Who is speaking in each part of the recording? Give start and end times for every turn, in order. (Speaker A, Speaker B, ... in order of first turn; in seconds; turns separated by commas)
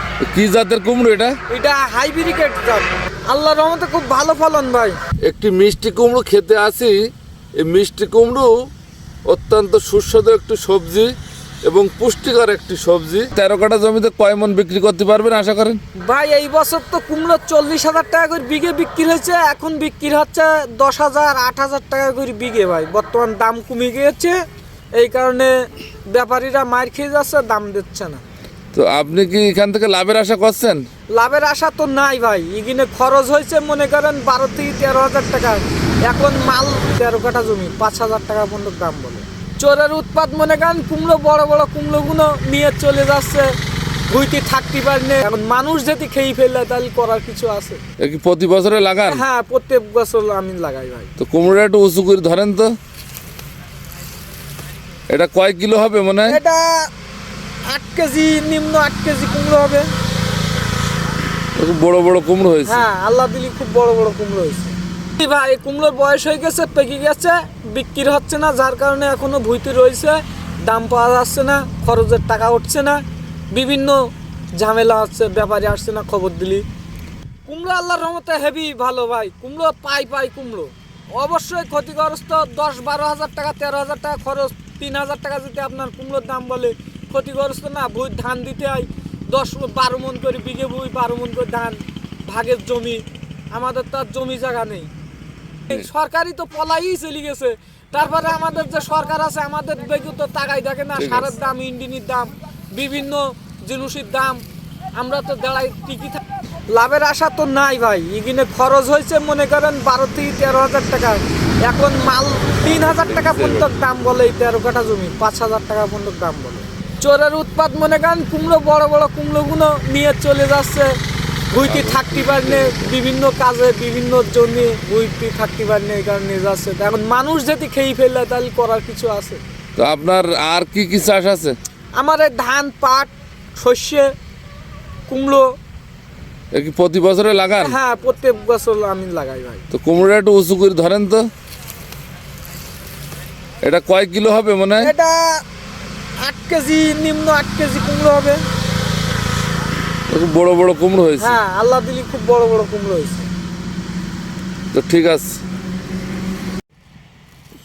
Speaker A: 0.2-1.4, Speaker B: 1.5-5.0, Speaker A: 5.2-7.0, Speaker A: 7.5-8.5, Speaker A: 9.2-11.1, Speaker A: 11.7-15.8, Speaker B: 16.0-24.4, Speaker B: 24.9-25.5, Speaker B: 26.1-28.2, Speaker A: 28.7-30.8, Speaker B: 31.1-43.5, Speaker B: 44.1-47.8, Speaker A: 48.0-49.2, Speaker B: 49.1-51.1, Speaker A: 51.2-52.7, Speaker A: 55.1-56.4, Speaker B: 56.2-56.9, Speaker B: 57.7-59.9, Speaker A: 61.5-62.8, Speaker B: 62.6-74.0, Speaker B: 74.5-76.6, Speaker B: 77.5-94.9, Speaker B: 95.7-104.4, Speaker A: 101.0-101.3, Speaker B: 105.0-121.0, Speaker A: 112.9-113.7, Speaker B: 121.5-129.4, Speaker A: 121.6-123.0, Speaker A: 129.8-131.6, Speaker B: 131.9-134.1, Speaker B: 135.1-135.5, Speaker A: 136.5-137.8, Speaker B: 137.6-139.6, Speaker A: 139.7-141.3, Speaker A: 143.6-144.9, Speaker B: 144.8-145.4, Speaker B: 146.2-148.4, Speaker A: 150.1-151.4, Speaker B: 151.2-153.3, Speaker A: 154.7-155.4